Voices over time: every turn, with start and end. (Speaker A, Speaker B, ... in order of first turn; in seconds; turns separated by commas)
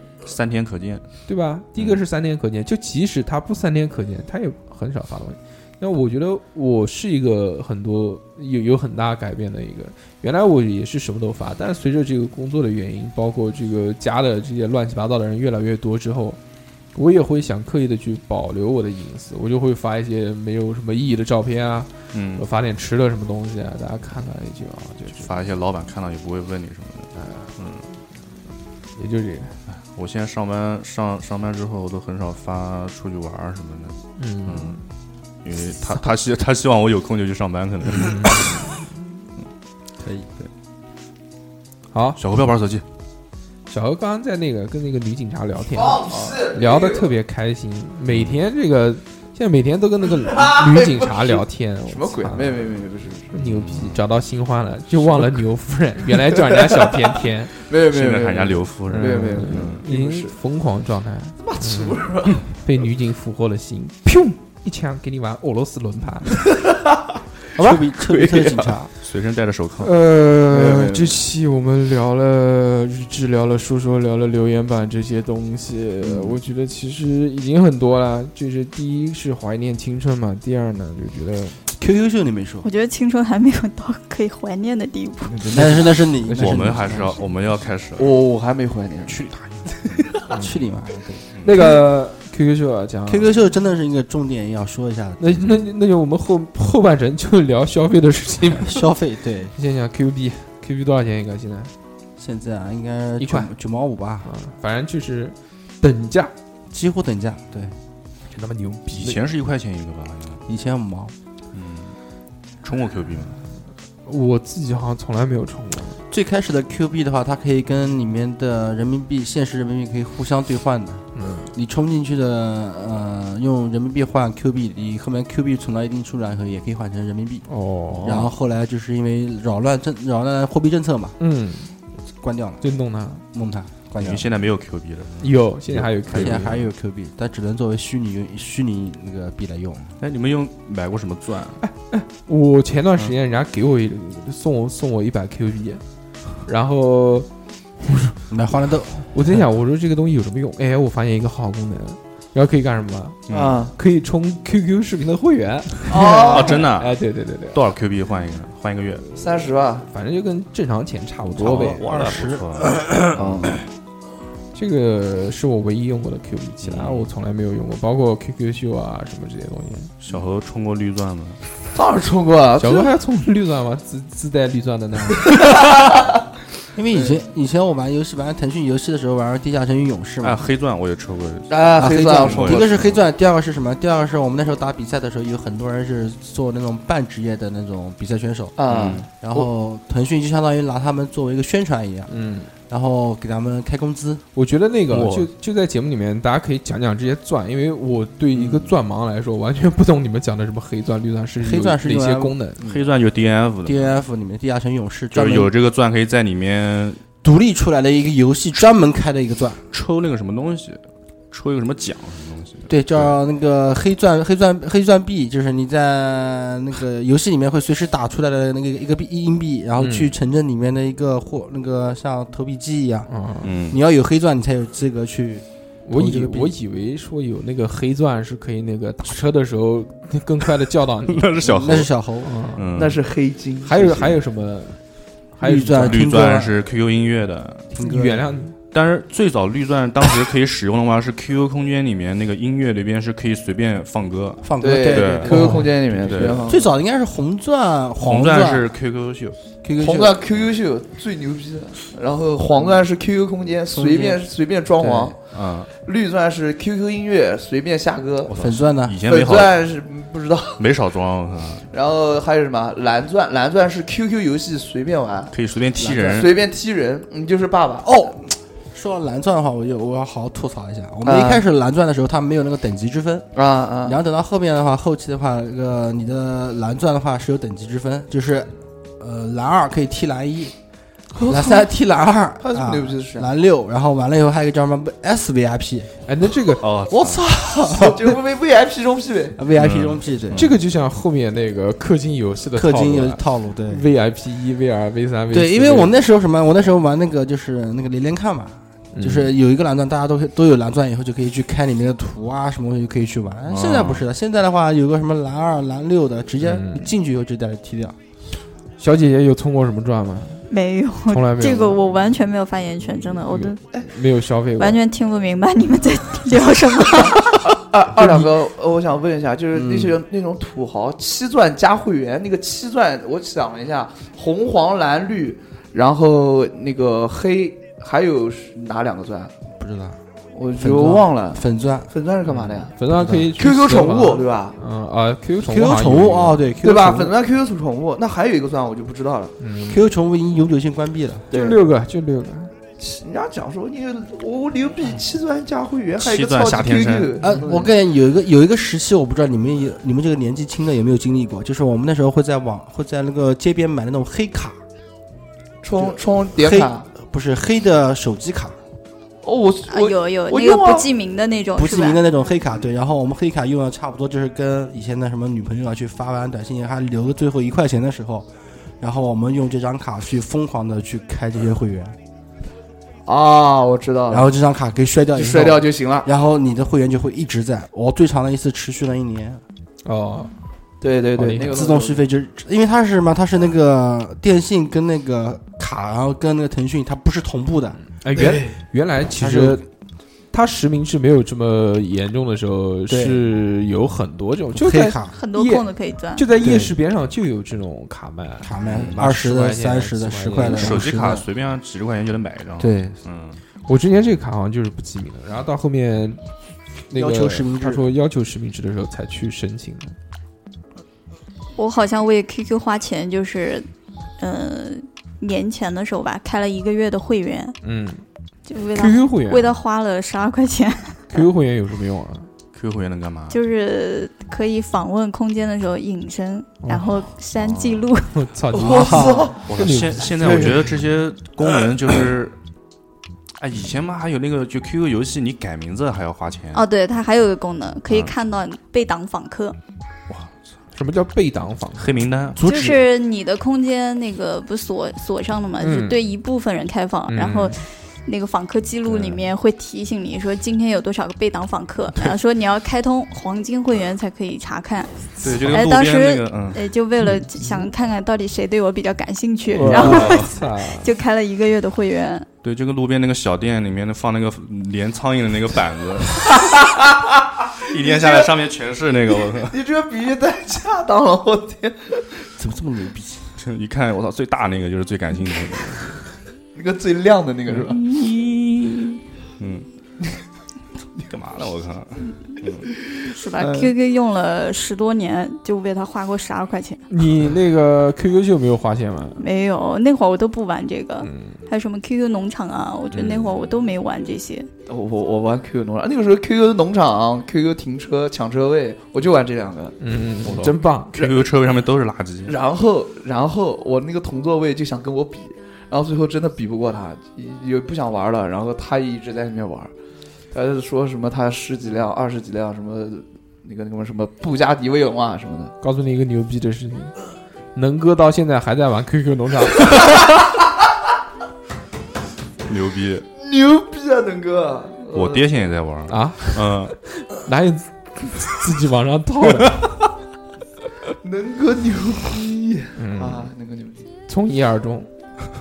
Speaker A: 0.2-1.1, Speaker B: 1.3-16.4, Speaker B: 16.9-25.3, Speaker A: 22.1-22.4, Speaker A: 25.1-27.9, Speaker B: 27.2-27.5, Speaker B: 29.0-29.6, Speaker A: 29.7-34.8, Speaker B: 34.2-34.9, Speaker A: 35.4-38.6, Speaker B: 37.9-39.0, Speaker C: 40.0-40.3, Speaker B: 41.9-42.2, Speaker A: 42.2-42.9, Speaker B: 43.7-52.7, Speaker D: 45.8-47.0, Speaker A: 48.1-48.4, Speaker D: 50.4-53.4, Speaker B: 53.3-57.5, Speaker A: 53.4-54.0, Speaker D: 56.6-57.0, Speaker D: 57.7-60.4, Speaker A: 57.9-59.9, Speaker B: 58.9-66.5, Speaker D: 61.4-62.5, Speaker D: 66.5-67.0, Speaker C: 67.5-68.9, Speaker D: 67.6-68.8, Speaker A: 69.0-69.9, Speaker B: 69.8-81.6, Speaker D: 70.5-71.2, Speaker C: 76.0-76.3, Speaker C: 81.8-82.7, Speaker E: 82.6-85.5, Speaker B: 85.2-87.2, Speaker C: 85.5-87.2, Speaker A: 86.4-88.1, Speaker D: 88.0-89.2, Speaker A: 89.1-90.1, Speaker C: 90.3-91.2, Speaker B: 91.4-93.3, Speaker C: 93.1-95.4, Speaker B: 95.2-98.9, Speaker C: 98.6-99.6, Speaker B: 99.5-101.7, Speaker C: 102.2-104.3, Speaker B: 103.2-103.5, Speaker B: 104.2-106.3, Speaker C: 106.7-107.8, Speaker B: 108.3-109.2, Speaker A: 108.9-110.4, Speaker C: 110.5-111.1, Speaker A: 111.5-112.0, Speaker A: 112.6-113.4, Speaker B: 114.0-116.0, Speaker C: 116.1-127.5, Speaker B: 121.2-121.5, Speaker B: 127.5-128.3, Speaker A: 127.9-128.3, Speaker C: 128.0-131.2, Speaker B: 131.2-131.7, Speaker C: 132.2-132.6, Speaker B: 132.6-133.2, Speaker C: 133.3-134.3, Speaker A: 134.0-136.6, Speaker B: 135.2-136.6, Speaker C: 136.1-139.9, Speaker A: 140.0-141.6, Speaker B: 141.6-145.8, Speaker B: 146.4-147.3, Speaker B: 147.8-148.2, Speaker C: 148.3-149.2, Speaker B: 149.1-153.2, Speaker A: 153.3-153.6, Speaker D: 153.3-153.7, Speaker B: 153.8-157.6, Speaker D: 155.9-156.7, Speaker A: 155.9-157.0, Speaker A: 157.5-159.1, Speaker D: 159.2-159.9, Speaker B: 159.9-161.8, Speaker C: 161.4-163.0, Speaker A: 161.4-163.5, Speaker D: 163.2-163.6, Speaker B: 164.5-169.9, Speaker A: 166.6-167.1, Speaker A: 170.0-171.4, Speaker D: 171.7-172.9, Speaker B: 172.6-175.7, Speaker D: 175.3-175.9, Speaker C: 176.7-180.4, Speaker A: 180.2-183.0, Speaker D: 181.5-182.7, Speaker C: 181.8-192.1, Speaker D: 188.6-189.1, Speaker A: 188.7-189.1, Speaker B: 192.1-192.5, Speaker C: 192.7-194.2, Speaker B: 194.3-202.6, Speaker A: 194.9-195.3, Speaker C: 201.4-202.8, Speaker A: 202.6-204.0, Speaker C: 203.7-205.5, Speaker A: 205.1-207.0, Speaker C: 207.2-209.6, Speaker A: 209.7-213.2, Speaker C: 212.7-223.1, Speaker B: 219.8-220.1, Speaker B: 223.1-223.5, Speaker A: 223.4-223.8, Speaker C: 223.7-226.5, Speaker B: 225.9-231.3, Speaker A: 231.1-231.9, Speaker C: 231.4-232.3, Speaker B: 232.2-232.7, Speaker A: 232.6-233.0, Speaker D: 232.7-234.1, Speaker B: 233.6-234.8, Speaker B: 235.3-236.0, Speaker C: 235.4-236.6, Speaker A: 235.8-237.7, Speaker C: 237.8-238.2, Speaker B: 237.8-238.6, Speaker A: 238.7-246.6, Speaker C: 244.4-248.7, Speaker D: 244.6-246.7, Speaker B: 245.3-245.7, Speaker A: 248.0-249.4, Speaker C: 249.6-250.2, Speaker D: 249.8-255.2, Speaker C: 253.7-254.2, Speaker C: 254.8-255.1, Speaker A: 255.3-255.7, Speaker D: 255.7-258.5, Speaker A: 258.3-259.6, Speaker C: 258.4-259.1, Speaker D: 259.1-260.7, Speaker A: 260.6-261.7, Speaker D: 261.7-268.1, Speaker A: 265.3-266.5, Speaker C: 267.8-273.3, Speaker D: 271.1-271.4, Speaker D: 273.4-274.0, Speaker C: 273.8-280.6, Speaker D: 281.2-281.7, Speaker C: 281.2-285.9, Speaker D: 282.4-283.3, Speaker B: 286.1-286.7, Speaker A: 286.6-287.2, Speaker C: 286.9-288.1, Speaker D: 287.6-289.4, Speaker C: 289.4-290.5, Speaker A: 289.6-290.5, Speaker B: 290.3-295.9, Speaker C: 292.6-293.8, Speaker C: 295.3-308.0, Speaker B: 298.9-299.3, Speaker A: 303.5-304.1, Speaker B: 306.4-306.9, Speaker B: 308.8-310.5, Speaker E: 310.5-313.8, Speaker B: 311.1-311.8, Speaker B: 313.2-314.8, Speaker E: 314.6-317.3, Speaker D: 317.6-329.3, Speaker B: 318.0-318.3, Speaker B: 319.6-320.0, Speaker C: 329.5-330.0, Speaker D: 330.3-332.8, Speaker C: 330.6-331.9, Speaker B: 332.3-336.4, Speaker C: 332.9-333.3, Speaker D: 333.4-334.6, Speaker C: 335.4-337.1, Speaker D: 336.6-339.4, Speaker B: 339.4-339.8, Speaker C: 339.7-341.3, Speaker D: 341.3-341.6, Speaker B: 341.3-342.5, Speaker D: 342.8-347.7, Speaker A: 346.0-347.2, Speaker C: 347.2-354.6, Speaker D: 355.6-356.9, Speaker C: 355.8-358.6, Speaker D: 359.2-360.9, Speaker E: 359.7-362.0, Speaker C: 361.6-372.0, Speaker D: 373.1-374.3, Speaker C: 374.1-379.4, Speaker D: 375.1-376.1, Speaker B: 379.9-380.3, Speaker D: 380.8-382.0, Speaker B: 381.2-381.6, Speaker C: 381.3-388.4, Speaker B: 388.0-389.6, Speaker D: 388.2-388.5, Speaker C: 389.1-389.6, Speaker B: 390.3-400.8, Speaker C: 392.9-393.2, Speaker C: 394.6-395.2, Speaker E: 395.1-396.2, Speaker C: 396.4-396.7, Speaker C: 398.4-401.2, Speaker A: 398.6-399.0, Speaker A: 400.4-403.4, Speaker C: 402.6-403.0, Speaker B: 403.7-406.2, Speaker B: 406.9-410.0, Speaker C: 406.9-407.9, Speaker E: 411.6-413.7, Speaker E: 414.2-417.6, Speaker B: 417.6-418.0, Speaker E: 418.5-421.2, Speaker B: 418.8-419.6, Speaker B: 421.1-422.3, Speaker A: 422.5-423.4, Speaker E: 423.3-428.1, Speaker B: 426.6-426.9, Speaker A: 427.4-427.9, Speaker B: 428.1-430.6, Speaker D: 428.5-429.4, Speaker C: 428.6-429.3, Speaker A: 429.5-432.4, Speaker A: 433.4-436.6, Speaker E: 436.5-439.6, Speaker A: 440.1-440.4, Speaker B: 440.8-442.6, Speaker A: 441.8-442.8, Speaker E: 442.4-462.3, Speaker B: 445.6-446.0, Speaker B: 447.1-447.6, Speaker A: 448.9-449.2, Speaker A: 455.2-456.6, Speaker B: 457.0-457.7, Speaker B: 459.5-460.9, Speaker A: 459.6-460.3, Speaker A: 462.4-466.4, Speaker D: 466.4-467.0, Speaker A: 467.6-469.6, Speaker D: 467.8-468.3, Speaker D: 469.5-472.2, Speaker C: 472.4-473.3, Speaker A: 473.4-476.0, Speaker D: 476.6-477.8, Speaker B: 477.5-479.0, Speaker A: 479.4-479.7, Speaker A: 481.0-482.7, Speaker D: 482.9-483.7, Speaker E: 483.1-486.8, Speaker B: 486.9-489.2, Speaker E: 489.2-494.5, Speaker B: 491.0-491.4, Speaker A: 492.9-493.3, Speaker D: 494.7-499.8, Speaker B: 499.8-501.0, Speaker A: 500.2-502.4, Speaker D: 500.9-501.3, Speaker D: 502.3-509.7, Speaker D: 510.3-515.5, Speaker B: 515.6-517.0, Speaker B: 517.5-520.1, Speaker A: 522.5-523.1, Speaker D: 523.2-525.2, Speaker A: 524.9-526.8, Speaker B: 525.9-529.8, Speaker D: 531.0-533.9, Speaker B: 532.8-533.3, Speaker B: 534.1-534.9